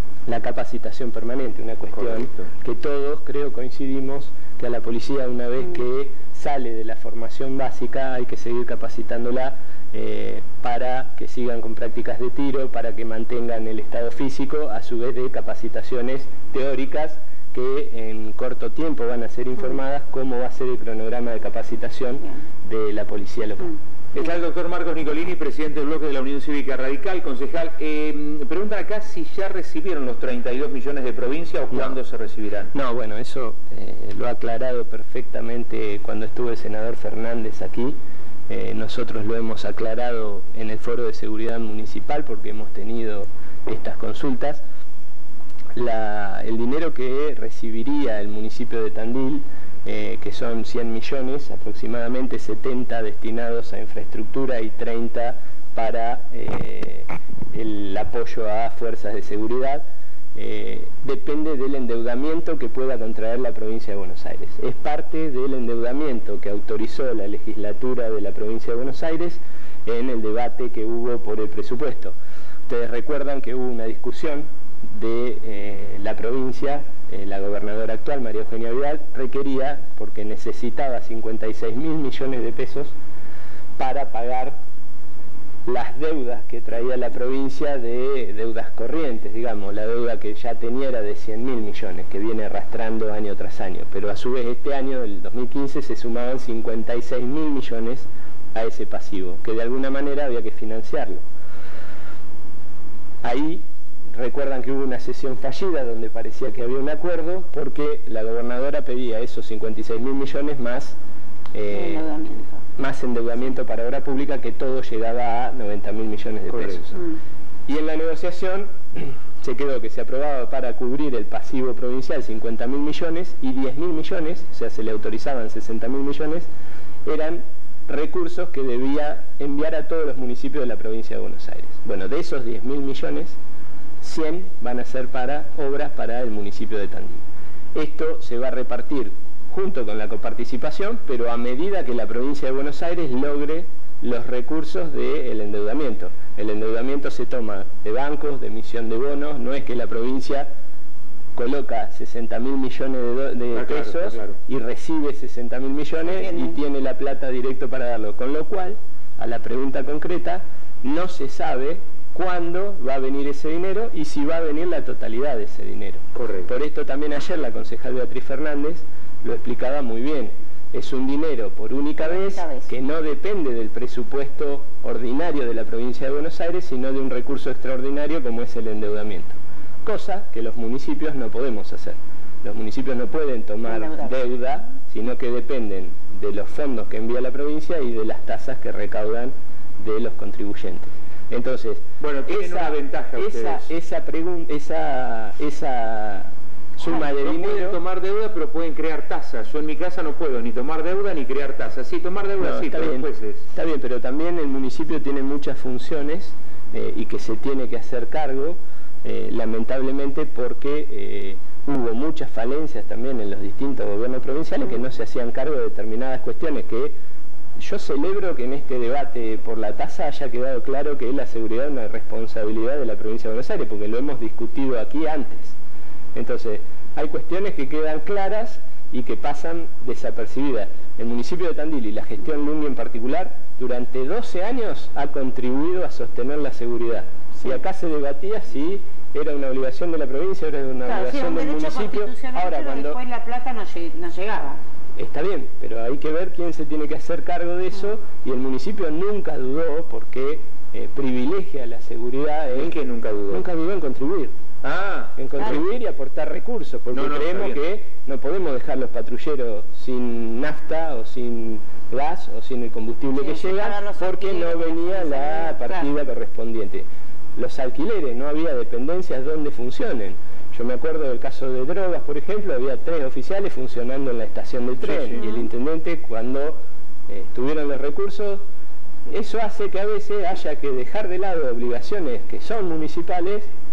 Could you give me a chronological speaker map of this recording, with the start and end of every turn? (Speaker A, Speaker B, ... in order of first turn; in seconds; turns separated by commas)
Speaker A: 0.3-23.8, Speaker B: 1.9-2.5, Speaker B: 24.1-32.7, Speaker A: 31.7-32.0, Speaker A: 32.7-38.0, Speaker A: 38.5-44.6, Speaker A: 45.7-72.2, Speaker A: 72.7-82.9, Speaker A: 83.8-84.6, Speaker A: 85.7-101.2, Speaker A: 103.2-111.0, Speaker A: 111.5-112.0, Speaker C: 111.7-112.6, Speaker A: 112.8-117.0, Speaker B: 116.5-116.9, Speaker A: 117.7-126.5, Speaker A: 127.0-133.4, Speaker A: 134.0-137.2, Speaker A: 137.7-150.5, Speaker A: 151.3-197.8, Speaker B: 153.5-154.4, Speaker C: 156.1-156.6, Speaker B: 166.2-166.5, Speaker C: 172.0-172.7, Speaker C: 183.7-184.2, Speaker B: 192.0-193.7, Speaker B: 196.8-203.4, Speaker A: 202.4-216.9, Speaker A: 217.6-225.6, Speaker A: 226.2-243.0, Speaker C: 240.8-244.6, Speaker A: 245.0-252.8, Speaker B: 252.5-253.4, Speaker A: 253.3-254.3, Speaker B: 254.6-255.2, Speaker A: 255.2-278.4, Speaker B: 256.9-257.6, Speaker C: 263.2-265.9, Speaker B: 274.8-275.2, Speaker C: 275.1-275.5, Speaker A: 279.1-283.5